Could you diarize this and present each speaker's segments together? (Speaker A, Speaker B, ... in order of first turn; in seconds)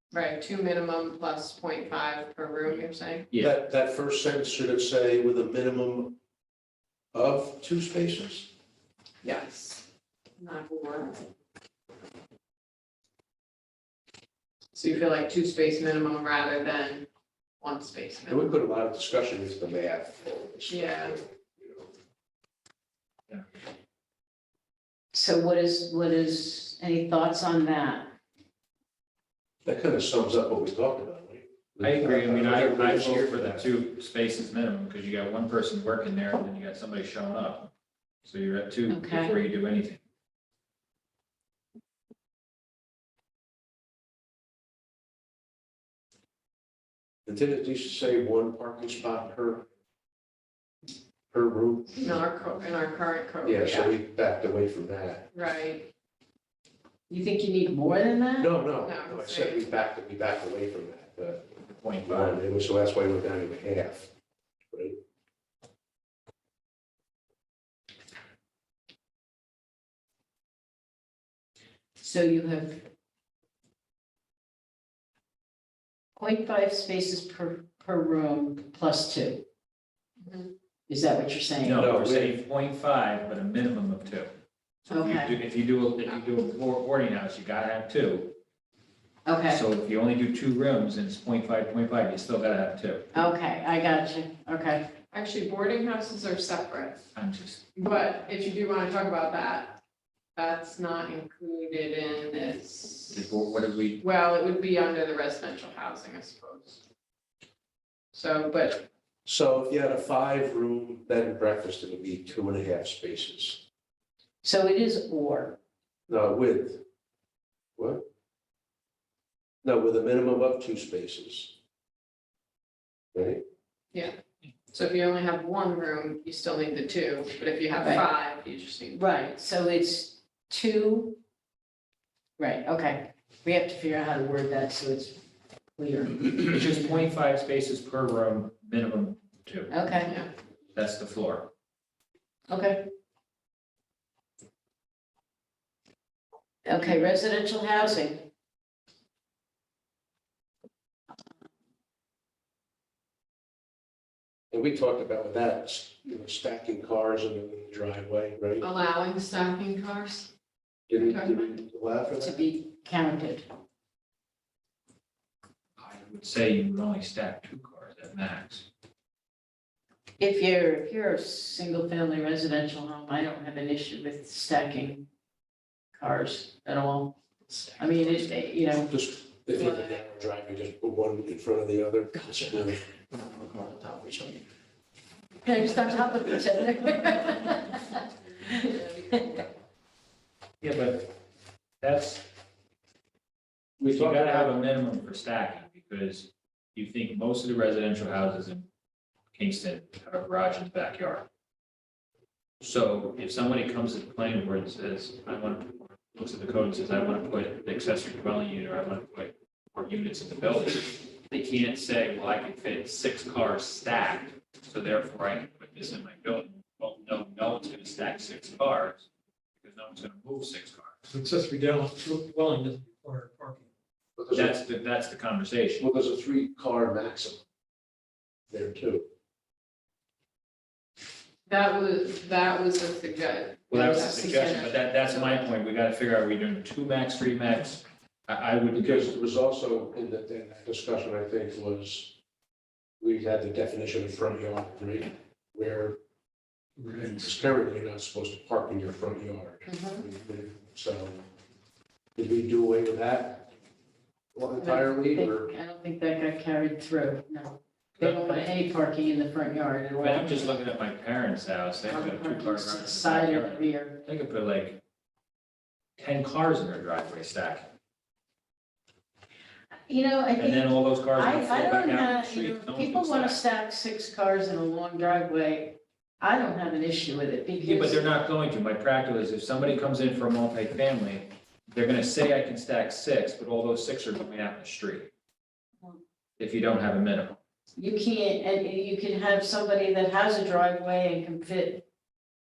Speaker A: 0.1-3.3, 9.2-9.9, 10.4-11.3, 14.7-17.1, 17.6-18.5, 20.7-21.1, 52.0-53.9, 55.3-55.9, 58.8-59.6, 80.2-80.5, 95.1-97.0, 97.8-99.8, 100.4-103.4, 104.0-106.8, 108.1-108.9, 124.7-129.0, 140.1-140.3, 158.6-160.3, 160.9-161.5, 188.5-189.4, 231.5-235.4
Speaker B: 3.3-3.6, 31.8-37.7, 38.2-40.0, 61.8-62.4, 81.6-84.3, 84.8-88.4, 89.5-93.1, 97.2-97.6, 103.1-104.0, 136.5-140.0, 140.8-141.5, 165.8-168.7, 190.6-191.1, 191.8-192.3, 193.8-198.7, 199.3-201.3, 202.6-221.1, 224.3-225.8, 233.7-239.1, 258.0-258.4, 260.0-264.8, 266.0-267.7, 270.4-273.4, 277.6-285.1, 286.4-287.4
Speaker C: 3.4-6.2, 7.1-8.5, 18.3-21.9, 29.6-33.7, 47.3-49.7, 51.3-52.1, 53.5-55.3, 58.4-61.5, 62.0-64.1, 64.7-65.0, 81.7-82.4, 109.2-113.6, 116.1-116.8, 117.8-118.0, 119.6-121.5, 123.1-123.4, 154.5-158.7, 160.9-162.5, 178.9-182.9, 193.8-194.6, 224.2-224.6, 225.8-227.4, 228.5-229.1, 238.8-242.2, 243.0-246.0, 246.9-251.2, 252.2-253.5, 254.3-255.5
Speaker D: 25.1-28.1, 38.9-39.4, 57.1-58.6, 72.0-72.9, 76.2-79.5, 80.9-81.9, 84.9-85.4, 89.2-89.6, 93.1-94.9, 114.4-115.6, 127.8-128.1, 128.9-131.2, 132.4-135.2, 135.8-136.6, 139.7-140.2, 142.5-142.9, 146.7-148.3, 162.2-163.5, 170.2-175.1, 175.9-177.2, 177.8-178.9, 185.4-188.0, 188.6-189.4, 233.7-234.7, 249.7-250.1, 254.6-260.6, 261.9-264.0, 269.9-278.1, 287.8-291.9
Speaker E: 221.1-223.7